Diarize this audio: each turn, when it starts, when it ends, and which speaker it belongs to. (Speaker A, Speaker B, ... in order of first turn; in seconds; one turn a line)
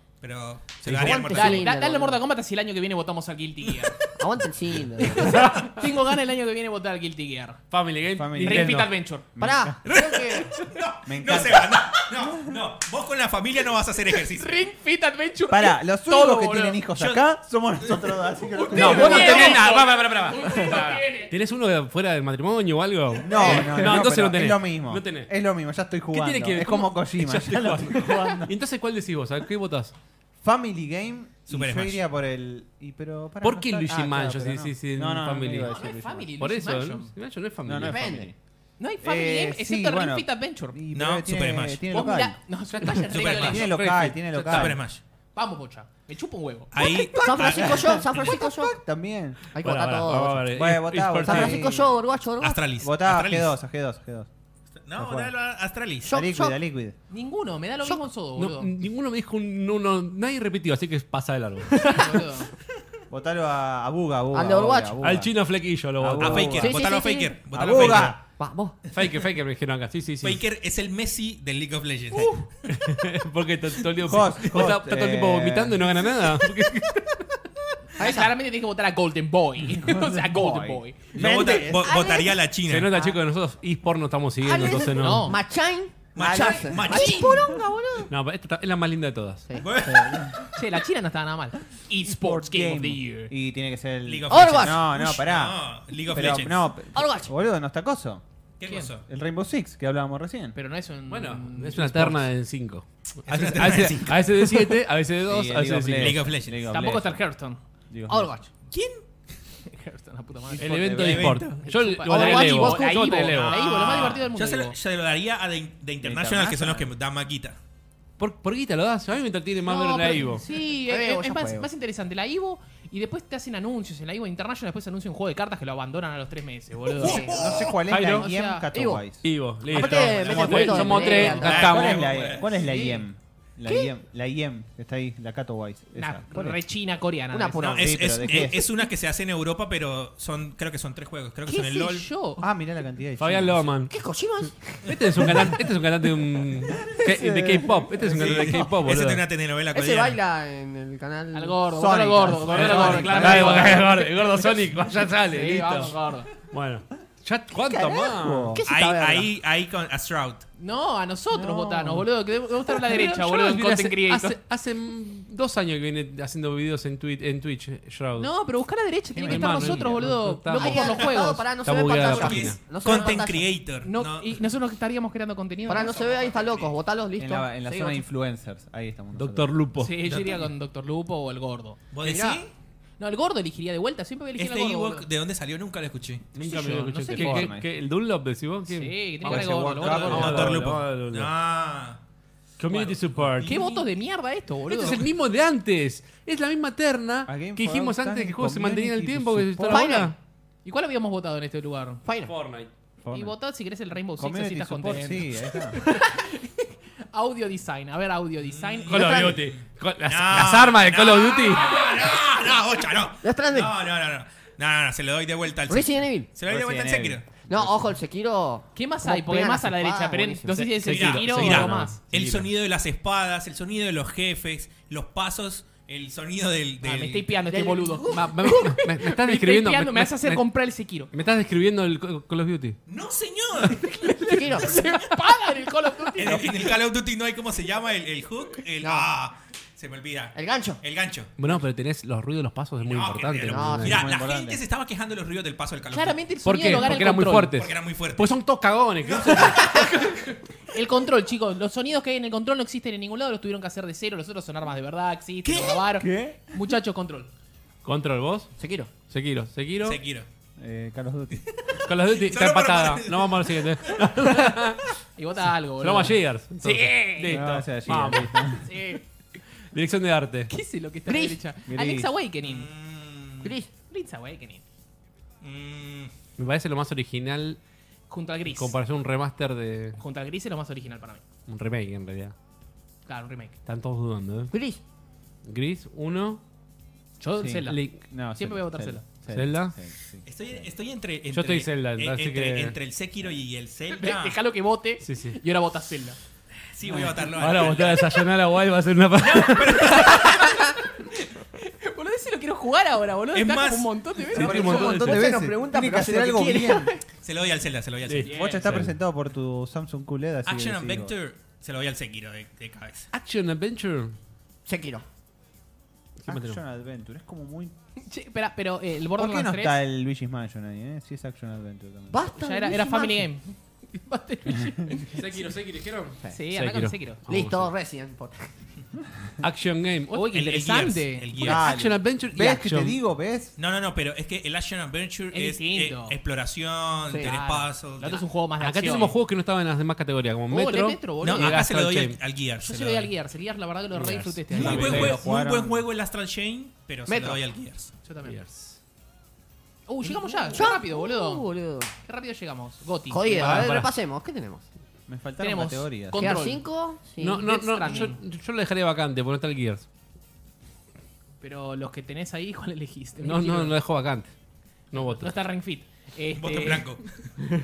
Speaker A: 0.2-1.7
Speaker B: 0.9-1.1
Speaker C: 0.9-2.2
Speaker D: 1.3-4.0
Speaker C: 4.2-5.6
Speaker D: 5.0-7.6
Speaker B: 5.2-5.8
Speaker B: 7.7-8.9
Speaker E: 8.2-8.8
Speaker D: 8.4-9.3
Speaker E: 9.4-9.8
Speaker C: 9.4-10.6
Speaker A: 9.9-14.6
Speaker E: 11.0-12.6
Speaker D: 14.2-16.8
Speaker E: 15.5-19.6
Speaker A: 17.0-17.3
Speaker D: 18.6-21.3
Speaker B: 18.7-25.3
Speaker E: 23.2-28.5
Speaker B: 26.1-29.9
Speaker E: 30.4-36.3
Speaker A: 31.5-32.0
Speaker B: 33.4-35.8
Speaker D: 35.6-37.1
Speaker B: 36.4-38.2
Speaker E: 37.6-38.4
Speaker C: 37.9-38.3
Speaker D: 38.8-40.8
Speaker E: 39.0-42.4
Speaker A: 40.9-41.9
Speaker D: 41.9-43.7
Speaker B: 42.8-44.8
Speaker A: 43.1-43.7
Speaker E: 43.2-44.8
Speaker A: 44.4-45.0
Speaker D: 45.4-46.7
Speaker A: 46.7-48.4
Speaker C: 46.8-48.8
Speaker E: 47.3-49.4
Speaker C: 49.5-50.5
Speaker B: 49.6-51.7
Speaker E: 50.5-52.0
Speaker C: 51.2-52.6
Speaker A: 52.4-53.5
Speaker E: 52.8-54.3
Speaker A: 54.8-56.1
Speaker E: 55.0-55.3
Speaker C: 56.0-56.6
Speaker E: 56.1-57.0
Speaker D: 57.1-58.8
Speaker B: 58.4-62.3
Speaker D: 61.8-62.5
Speaker E: 63.1-65.3
Speaker C: 64.3-65.0
Speaker B: 65.0-66.6
Speaker E: 66.0-66.8
Speaker A: 66.2-68.2
Speaker C: 66.6-68.8
Speaker E: 67.5-68.2
Speaker B: 68.9-70.4
Speaker A: 70.2-72.5
Speaker B: 72.7-77.2
Speaker E: 74.0-75.9
Speaker D: 78.0-81.2
Speaker C: 78.0-78.3
Speaker E: 79.6-81.9
Speaker A: 81.1-82.9
Speaker C: 81.8-83.2
Speaker B: 82.7-85.4
Speaker C: 84.4-88.1
Speaker D: 84.9-85.4
Speaker A: 86.2-87.4
Speaker E: 86.2-87.2
Speaker D: 86.9-87.3
Speaker B: 88.1-89.5
Speaker C: 89.5-90.0
Speaker A: 89.6-90.5
Speaker E: 89.8-90.4
Speaker D: 90.5-93.3
Speaker E: 92.0-98.2
Speaker A: 94.0-96.7
Speaker C: 94.3-95.0
Speaker C: 96.9-97.3
Speaker A: 98.6-99.1
Speaker E: 99.0-100.6
Speaker D: 100.5-102.3
Speaker B: 101.1-106.3
Speaker A: 103.3-104.7
Speaker E: 105.3-107.2
Speaker A: 106.0-106.6
Speaker D: 106.7-107.6
Speaker E: 107.9-108.3
Speaker C: 108.1-108.5
Speaker A: 108.7-109.0
Speaker D: 109.7-114.8
Speaker B: 110.6-113.8
Speaker E: 110.6-111.3
Speaker A: 110.9-111.6
Speaker C: 112.1-113.2
Speaker A: 113.3-117.6
Speaker E: 116.0-116.9
Speaker B: 118.2-120.4
Speaker D: 119.7-127.5
Speaker C: 119.9-121.7
Speaker A: 126.9-127.8
Speaker E: 127.0-129.3
Speaker C: 127.0-127.5
Speaker B: 127.9-128.3
Speaker D: 128.0-128.7
Speaker C: 128.7-129.1
Speaker B: 129.2-132.1
Speaker C: 129.6-131.9
Speaker A: 129.7-132.7
Speaker D: 130.7-131.4
Speaker E: 131.2-136.6
Speaker D: 132.5-133.0
Speaker D: 133.7-133.9
Speaker D: 135.9-137.8
Speaker C: 137.3-138.5
Speaker A: 137.6-142.1
Speaker E: 137.8-138.7
Speaker D: 141.5-142.5
Speaker E: 142.4-143.7
Speaker B: 143.2-143.9
Speaker C: 143.9-145.5
Speaker B: 144.8-149.2
Speaker E: 146.8-148.7
Speaker A: 148.1-150.2
Speaker C: 149.7-151.6
Speaker D: 151.3-156.3
Speaker E: 151.7-153.9
Speaker C: 152.2-153.2
Speaker B: 152.5-156.0
Speaker B: 156.5-158.6
Speaker E: 157.6-158.6
Speaker C: 158.5-159.3
Speaker A: 158.7-160.4
Speaker D: 160.6-164.4
Speaker E: 161.3-162.1
Speaker B: 162.8-168.3
Speaker D: 168.2-171.5
Speaker E: 169.2-170.0
Speaker B: 169.2-170.9
Speaker C: 170.5-173.5
Speaker B: 171.6-172.7
Speaker A: 171.9-174.4
Speaker D: 173.8-176.1
Speaker C: 175.7-178.0
Speaker A: 175.8-176.7
Speaker E: 177.2-179.6
Speaker B: 179.2-180.3
Speaker D: 179.8-181.8
Speaker A: 180.1-180.4
Speaker A: 181.9-182.5
Speaker C: 182.0-182.4
Speaker D: 183.0-185.1
Speaker A: 184.4-186.3
Speaker B: 186.3-191.3
Speaker D: 186.4-187.5
Speaker E: 187.0-187.7
Speaker D: 188.7-190.5
Speaker E: 189.2-190.7
Speaker A: 189.8-192.0
Speaker B: 192.6-193.6
Speaker A: 192.7-193.8
Speaker D: 193.4-195.0
Speaker B: 194.7-200.2
Speaker E: 197.3-200.0
Speaker C: 199.7-200.1
Speaker D: 200.7-202.0
Speaker C: 202.1-202.3
Speaker B: 202.2-202.7
Speaker E: 203.0-203.3
Speaker D: 203.1-209.3
Speaker E: 204.2-205.8
Speaker A: 208.4-217.3
Speaker B: 208.9-211.8
Speaker C: 208.9-209.4
Speaker C: 213.2-213.7
Speaker C: 215.7-216.3
Speaker E: 216.5-217.8
Speaker C: 217.5-220.7
Speaker D: 218.8-222.0
Speaker B: 220.5-222.4
Speaker A: 220.9-227.4
Speaker E: 222.1-222.4
Speaker D: 226.8-231.1
Speaker C: 227.5-228.5
Speaker B: 228.1-230.5
Speaker B: 231.1-232.8
Speaker A: 232.9-234.0
Speaker D: 233.6-236.7
Speaker C: 234.3-234.9
Speaker A: 236.2-241.3
Speaker C: 238.8-239.1
Speaker C: 240.3-240.8
Speaker B: 241.4-244.1
Speaker A: 242.8-246.2
Speaker C: 243.5-244.1
Speaker E: 243.8-244.6
Speaker D: 245.9-247.5
Speaker B: 246.4-250.2
Speaker A: 247.5-248.4
Speaker A: 249.1-249.7
Speaker D: 249.4-257.3
Speaker A: 255.4-255.8
Speaker E: 255.9-256.4
Speaker B: 257.9-260.0
Speaker C: 258.6-258.9
Speaker A: 259.8-260.3
Speaker E: 260.6-261.5
Speaker A: 261.5-264.0
Speaker B: 261.9-265.0
Speaker D: 265.2-267.5
Speaker B: 265.8-268.6
Speaker E: 267.3-268.7
Speaker D: 268.6-269.1
Speaker B: 269.7-270.5
Speaker D: 270.5-272.7
Speaker C: 271.1-271.4
Speaker E: 271.7-272.1
Speaker A: 272.4-273.6
Speaker C: 273.4-273.7
Speaker D: 273.9-274.6
Speaker A: 275.4-276.1
Speaker B: 276.4-277.6
Speaker D: 278.1-278.8
Speaker B: 278.5-280.0
Speaker D: 280.0-281.2
Speaker B: 281.5-282.3
Speaker D: 283.1-283.6
Speaker B: 283.7-284.5
Speaker C: 284.5-284.8
Speaker B: 285.4-286.4
Speaker D: 287.2-289.1
Speaker E: 287.4-290.7
Speaker B: 287.6-288.0
Speaker B: 289.3-289.8
Speaker A: 290.2-294.4
Speaker B: 291.3-292.8
Speaker D: 293.9-296.2
Speaker B: 295.0-295.4
Speaker A: 296.6-298.2
Speaker E: 296.9-297.2
Speaker B: 297.4-300.5
Speaker A: 299.2-300.5
Speaker D: 299.8-304.9
Speaker A: 303.3-303.9
Speaker E: 304.3-306.9
Speaker B: 304.4-305.3
Speaker C: 304.4-306.9
Speaker A: 307.2-308.4
Speaker B: 308.1-309.0
Speaker D: 308.2-308.8
Speaker E: 308.3-311.1
Speaker A: 310.5-313.1
Speaker B: 313.1-314.1
Speaker C: 314.7-315.1
Speaker B: 316.2-316.6
Speaker E: 316.3-317.8
Speaker D: 318.0-319.8
Speaker E: 319.2-322.2
Speaker C: 322.1-323.3
Speaker D: 322.3-325.5
Speaker B: 325.1-327.7
Speaker D: 326.3-327.2
Speaker C: 327.3-328.5
Speaker B: 329.4-330.3
Speaker D: 330.1-331.4
Speaker A: 330.3-331.7
Speaker B: 331.4-333.0
Speaker E: 331.4-333.5
Speaker A: 333.6-338.2
Speaker D: 335.3-336.2
Speaker C: 337.1-337.3
Speaker D: 337.2-339.2
Speaker B: 338.6-342.2
Speaker D: 340.5-341.6
Speaker A: 341.2-343.1
Speaker D: 342.6-345.1
Speaker B: 343.9-345.2
Speaker A: 344.5-347.9
Speaker E: 344.6-345.9
Speaker C: 347.1-347.4
Speaker D: 348.0-348.4
Speaker B: 348.2-348.8
Speaker D: 349.9-351.5
Speaker C: 350.5-351.9
Speaker D: 352.0-353.7
Speaker C: 353.1-354.7
Speaker B: 353.3-353.9
Speaker E: 355.1-356.4
Speaker D: 355.4-356.6
Speaker C: 356.1-358.0
Speaker B: 357.2-359.9
Speaker D: 357.4-358.2
Speaker D: 361.4-363.8
Speaker B: 363.2-364.3
Speaker B: 364.9-365.5
Speaker D: 364.9-367.1
Speaker A: 366.4-367.3